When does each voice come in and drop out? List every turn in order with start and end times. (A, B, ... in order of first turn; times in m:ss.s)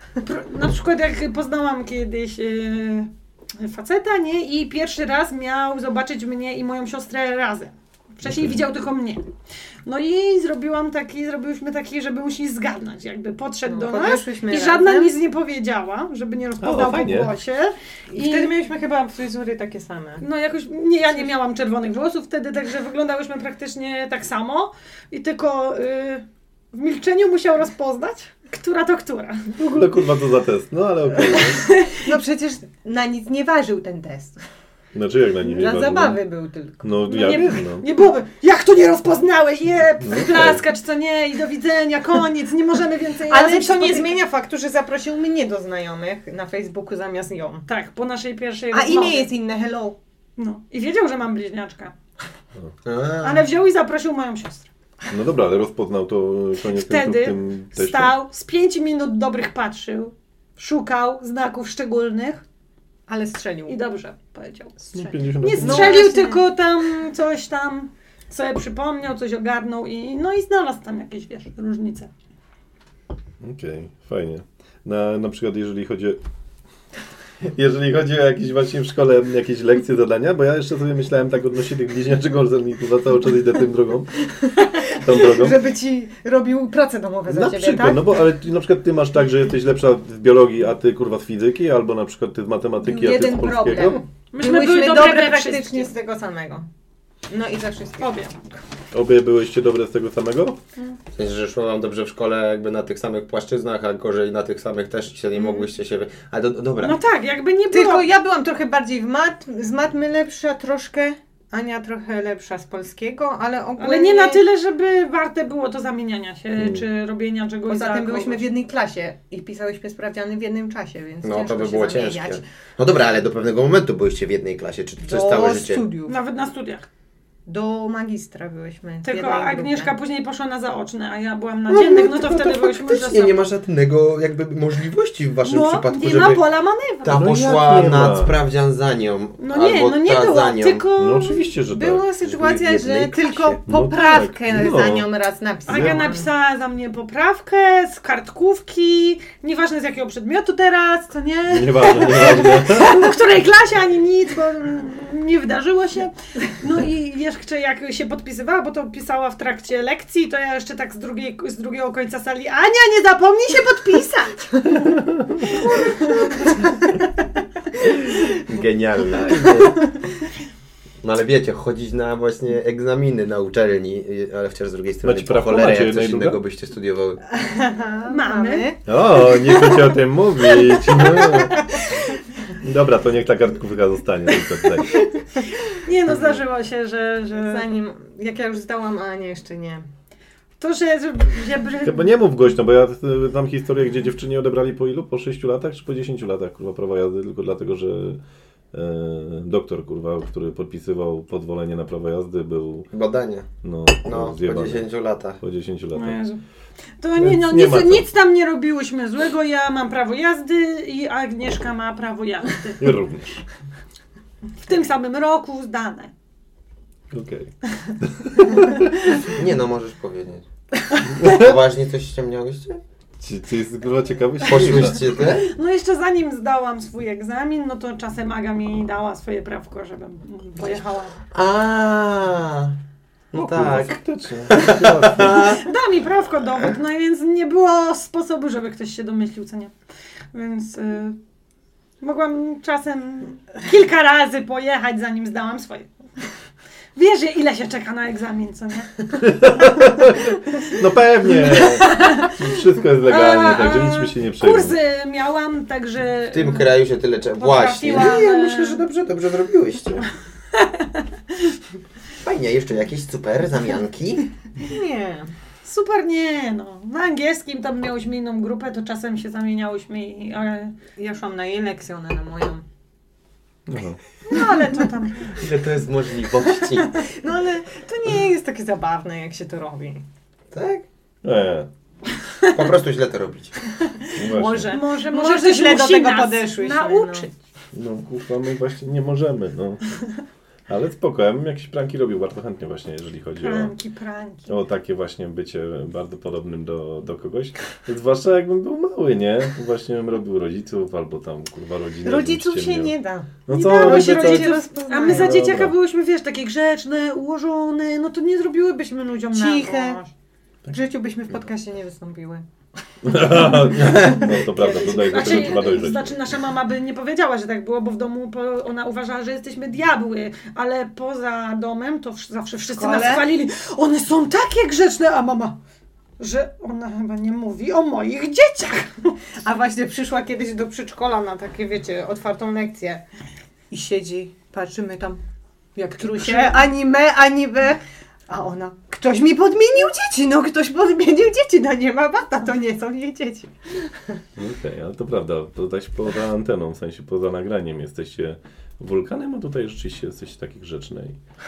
0:00.2-0:09.2 A
0:08.2-0:08.6 B
0:09.8-0:18.5 A
0:13.6-0:15.1 C
0:16.6-0:17.3 B
0:18.1-0:20.2 C
0:20.2-0:29.5 A
0:29.5-0:31.7 B
0:31.6-0:32.0 A
0:32.0-0:34.4 C
0:34.9-0:36.2 B
0:35.4-0:37.2 C
0:36.8-0:37.8 B
0:37.1-0:44.2 A
0:40.0-0:40.6 B
0:43.3-0:47.6 C
0:47.7-0:49.3 A
0:48.7-0:50.0 C
0:50.4-0:51.9 A
0:52.8-0:53.5 D
0:53.2-0:54.7 A
0:55.1-0:58.1 B
0:56.6-1:02.4 A
1:03.1-1:03.8 C
1:03.7-1:12.1 A
1:04.9-1:06.1 B
1:05.0-1:06.5 C
1:13.4-1:16.2 B
1:17.5-1:25.6 B
1:24.6-1:28.1 C
1:27.3-1:34.0 B
1:32.8-1:36.7 C
1:34.3-1:35.9 A
1:37.3-1:38.1 C
1:38.0-1:38.3 A
1:38.9-1:40.6 B
1:41.1-1:47.0 D
1:46.8-1:48.1 A
1:47.7-1:54.4 C
1:53.8-1:58.5 A
1:56.6-1:56.8 B
1:57.7-2:02.4 C
2:01.2-2:05.8 D
2:05.0-2:06.1 C
2:06.0-2:06.9 A
2:07.4-2:09.9 C
2:09.0-2:13.4 A
2:11.7-2:16.4 D
2:15.4-2:17.2 A
2:17.0-2:20.8 D
2:17.1-2:18.3 B
2:19.4-2:21.5 A
2:21.0-2:22.1 B
2:21.7-2:26.3 C
2:22.2-2:23.6 D
2:23.7-2:25.1 B
2:25.7-2:26.1 B
2:25.7-2:44.8 A
2:31.5-2:33.1 B
2:44.9-2:45.5 B
2:45.4-2:46.3 A
2:45.7-2:46.6 C
2:48.4-2:49.9 D
2:51.0-2:57.2 D
2:55.0-2:56.4 B
2:57.4-2:58.8 C
2:58.1-2:58.7 A
2:58.9-3:01.6 B
3:00.9-3:01.5 C
3:02.6-3:05.1 B
3:05.7-3:07.7 A
3:07.4-3:09.8 C
3:10.6-3:12.1 A
3:11.8-3:18.2 B
3:18.7-3:22.9 B
3:22.9-3:23.5 D
3:23.6-3:24.9 B
3:24.0-3:25.4 D
3:25.4-3:26.2 B
3:25.9-3:26.4 A
3:27.0-3:32.8 A
3:27.2-3:28.1 B
3:32.8-3:33.4 B
3:34.6-3:36.1 A
3:37.1-3:39.2 B
3:39.3-3:40.4 D
3:41.2-3:42.8 D
3:41.2-3:41.5 B
3:43.2-3:45.0 B
3:44.4-3:45.5 D
3:45.2-3:51.2 A
3:51.3-3:52.7 D
3:53.3-3:54.0 D
3:53.3-3:55.5 B
3:54.5-3:55.6 D
3:55.2-3:59.7 A
4:00.3-4:01.2 A
4:02.0-4:05.9 A
4:07.0-4:08.9 A
4:09.2-4:14.8 B
4:11.7-4:12.3 A
4:13.0-4:16.7 A
4:16.3-4:20.0 D
4:17.4-4:18.8 A
4:22.2-4:24.3 D
4:24.6-4:25.3 C
4:25.6-4:30.8 A
4:31.0-4:32.6 C
4:33.7-4:34.0 B
4:34.2-4:35.3 A
4:34.3-4:34.9 C
4:35.3-4:37.0 D
4:36.8-4:40.0 C
4:40.5-4:40.8 D
4:41.2-4:41.7 B
4:42.5-4:43.5 D
4:44.1-4:44.8 B
4:44.2-4:47.3 C
4:44.6-4:47.3 A
4:47.7-4:49.8 B
4:50.7-4:53.7 B
4:53.4-4:54.5 A
4:54.5-5:02.9 B
5:02.0-5:05.5 C
5:03.4-5:05.8 B
5:03.5-5:10.1 A
5:09.3-5:10.0 C
5:10.7-5:12.4 C
5:13.0-5:16.1 B
5:13.1-5:15.4 C
5:14.6-5:25.6 A
5:22.7-5:23.2 C
5:26.2-5:29.1 A
5:29.4-5:33.0 C
5:33.7-5:35.2 C
5:35.8-5:44.2 C
5:36.0-5:36.7 A
5:44.4-5:51.2 B